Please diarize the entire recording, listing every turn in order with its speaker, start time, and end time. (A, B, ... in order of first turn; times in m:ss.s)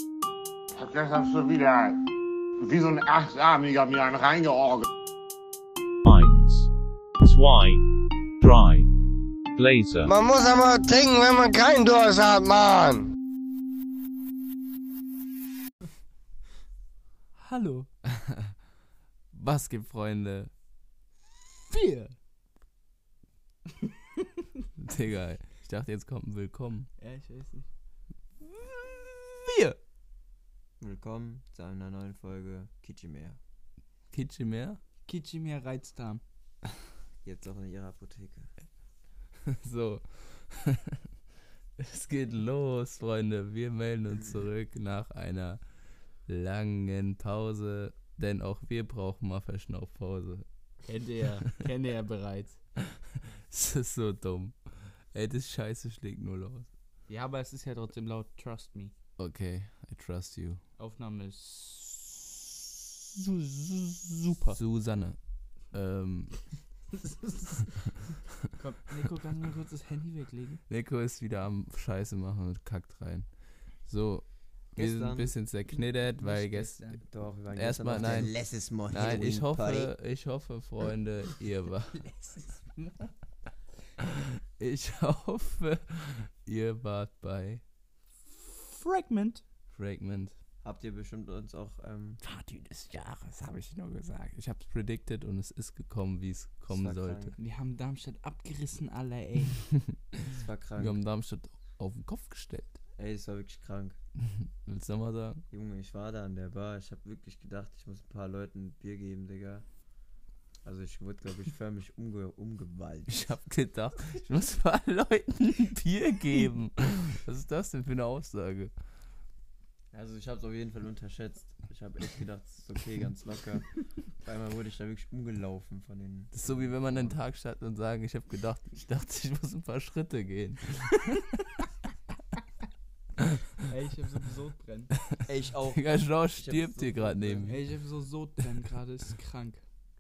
0:00.8-0:02.0 A
0:02.6-0:04.9 A
0:06.0-0:10.1 B
0:10.1-0:13.1 C
0:17.4-0:17.9 D
0:18.0-0:18.5 E
0:19.3-0:20.5 E
0:21.7-0:22.2 D
0:23.8-0:24.2 D
0:24.8-0:26.9 E
0:27.0-0:27.7 D
0:28.6-0:29.8 D
0:30.8-0:33.4 F
0:34.1-0:34.8 E
0:35.1-0:36.2 D
0:37.2-0:38.5 F
0:39.5-0:41.0 E
0:41.8-0:45.6 E
0:46.3-0:50.5 E
0:50.9-0:52.6 D
0:52.8-0:56.7 E
0:57.1-0:58.9 D
0:59.2-1:00.6 E
1:00.8-1:02.6 D
1:03.1-1:04.6 D
1:04.6-1:06.6 E
1:07.0-1:07.7 D
1:08.6-1:10.6 D
1:10.7-1:13.3 E
1:13.8-1:17.0 E
1:14.8-1:15.4 F
1:16.2-1:17.0 D
1:17.1-1:19.9 F
1:17.5-1:22.1 E
1:22.0-1:23.1 D
1:24.0-1:27.6 E
1:28.3-1:29.4 D
1:29.7-1:30.4 E
1:30.6-1:32.2 F
1:32.2-1:37.4 E
1:36.7-1:37.4 F
1:37.4-1:39.7 D
1:40.3-1:41.0 F
1:40.8-1:42.8 E
1:43.0-1:44.0 F
1:44.2-1:45.4 E
1:45.5-1:49.7 F
1:50.6-1:53.2 F
1:53.1-1:58.7 E
1:59.9-2:07.2 F
2:06.3-2:11.4 E
2:13.6-2:14.9 D
2:15.2-2:17.5 F
2:15.7-2:17.7 E
2:17.5-2:19.6 D